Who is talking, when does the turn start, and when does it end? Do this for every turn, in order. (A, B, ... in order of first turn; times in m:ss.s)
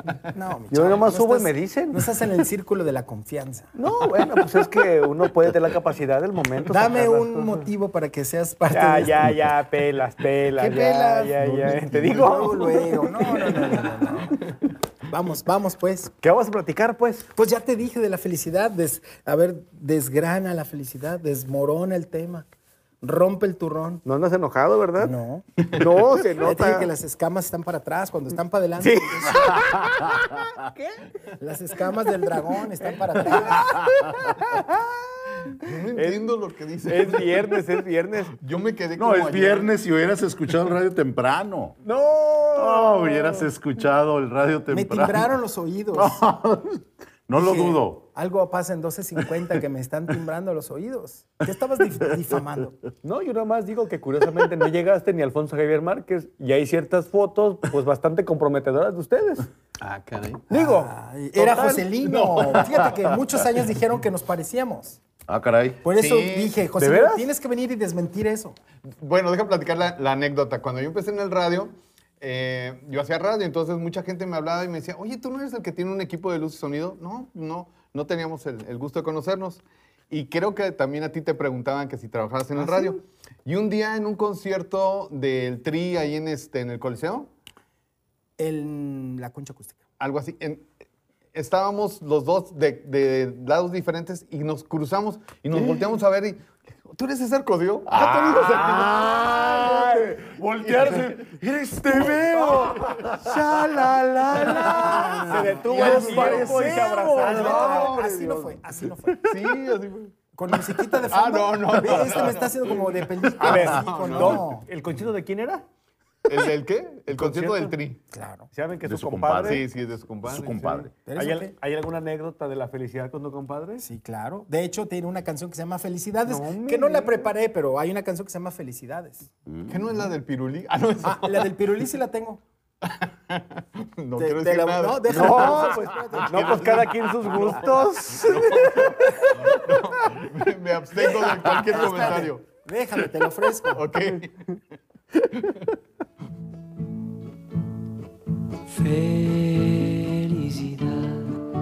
0:00.3-0:03.7 A
0:00.7-0:02.0 B
0:03.7-0:07.7 B
0:06.7-0:09.4 A
0:08.7-0:14.1 B
0:10.5-0:14.5 A
0:15.1-0:16.1 A
0:16.2-0:17.3 B
0:17.3-0:22.5 A
0:23.0-0:24.0 A
0:24.0-0:25.1 B
0:25.0-0:25.4 A
0:25.7-0:26.9 B
0:26.4-0:29.6 A
0:28.8-0:31.0 B
0:31.4-0:33.8 A
0:33.2-0:36.3 B
0:35.6-0:37.5 C
0:36.8-0:38.4 B
0:38.4-0:39.7 C
0:39.0-0:41.8 D
0:41.8-0:43.5 B
0:42.5-0:45.3 D
0:44.7-0:46.2 A
0:45.9-0:48.0 D
0:47.4-0:52.8 A
0:53.0-0:59.5 B
0:59.8-1:00.4 C
1:00.5-1:02.0 B
1:00.5-1:05.0 A
1:05.3-1:05.8 D
1:05.8-1:08.6 A
1:06.0-1:06.5 C
1:06.8-1:07.3 B
1:09.0-1:27.3 C
1:22.6-1:22.9 A
1:28.4-1:29.8 A
1:30.0-1:30.7 C
1:31.3-1:39.0 C
1:37.9-1:47.4 D
1:38.2-1:40.2 B
1:40.7-1:41.0 C
1:40.8-1:41.0 B
1:41.8-1:48.1 B
1:44.7-1:49.3 A
1:44.7-1:46.5 C
1:47.2-1:48.5 C
1:49.2-1:50.1 C
1:50.3-1:54.6 A
1:51.0-1:54.4 C
1:51.8-1:52.3 B
1:53.4-1:55.6 B
1:56.2-1:58.0 C
1:57.1-1:57.7 B
1:58.1-1:58.4 A
1:58.5-1:59.6 B
1:58.8-1:59.6 D
1:59.4-2:00.6 C
2:00.2-2:00.9 D
2:00.6-2:03.8 B
2:01.0-2:01.5 A
2:03.8-2:09.3 A
2:06.3-2:07.3 B
2:09.5-2:09.8 D
2:09.7-2:11.5 C
2:11.0-2:12.4 A
2:12.8-2:15.7 C
2:14.1-2:16.9 A
2:15.1-2:19.2 B
2:16.4-2:16.7 C
2:18.3-2:22.4 C
2:21.4-2:23.8 A
2:23.7-2:24.6 C
2:28.7-2:31.4 B